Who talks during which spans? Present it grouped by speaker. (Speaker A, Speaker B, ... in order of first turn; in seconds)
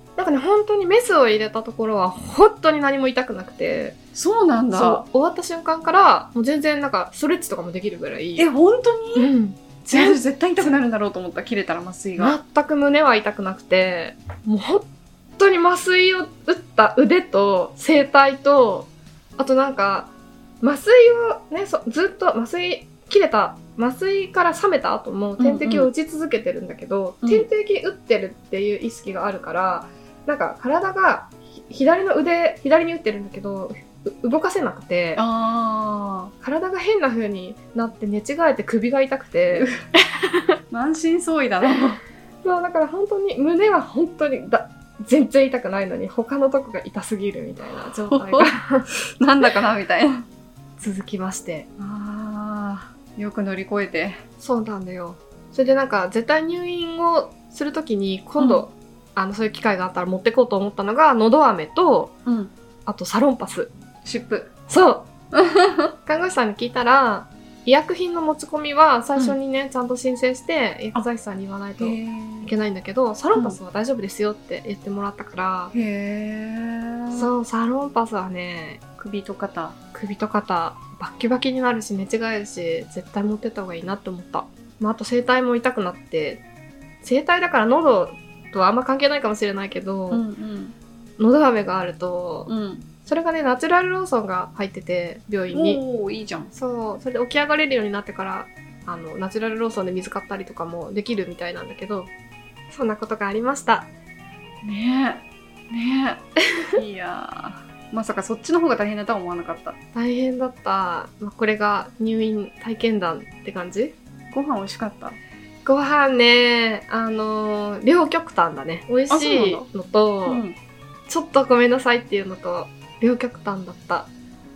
Speaker A: 0.2-4.0, 4.7-8.5, 9.1-10.2, 12.2-14.8, 15.4-20.1, 20.6-35.2, 36.4-39.7, 42.4-48.9, 50.8-51.7, 54.4-62.1, 62.9-63.7, 64.7-65.1, 66.0-75.7, 77.1-78.8, 79.9-86.4, 87.0-90.2, 91.2-92.5, 93.0-95.8, 96.5-102.1, 102.7-103.9, 109.9-113.9, 115.6-120.4, 121.1-124.1
Speaker B: 4.1-5.0, 8.4-9.3, 9.9-12.3, 25.4-25.9, 35.1-36.3, 39.5-39.8, 40.7-42.0, 47.8-48.5, 49.2-50.2, 51.8-54.2, 58.4-58.6, 62.2-62.5, 64.0-64.5, 65.3-65.9, 71.8-72.5, 75.7-77.3, 79.0-79.8, 90.1-90.7, 92.5-92.8, 95.5-96.5, 104.6-109.8, 114.3-115.2, 119.1-119.7, 120.3-120.5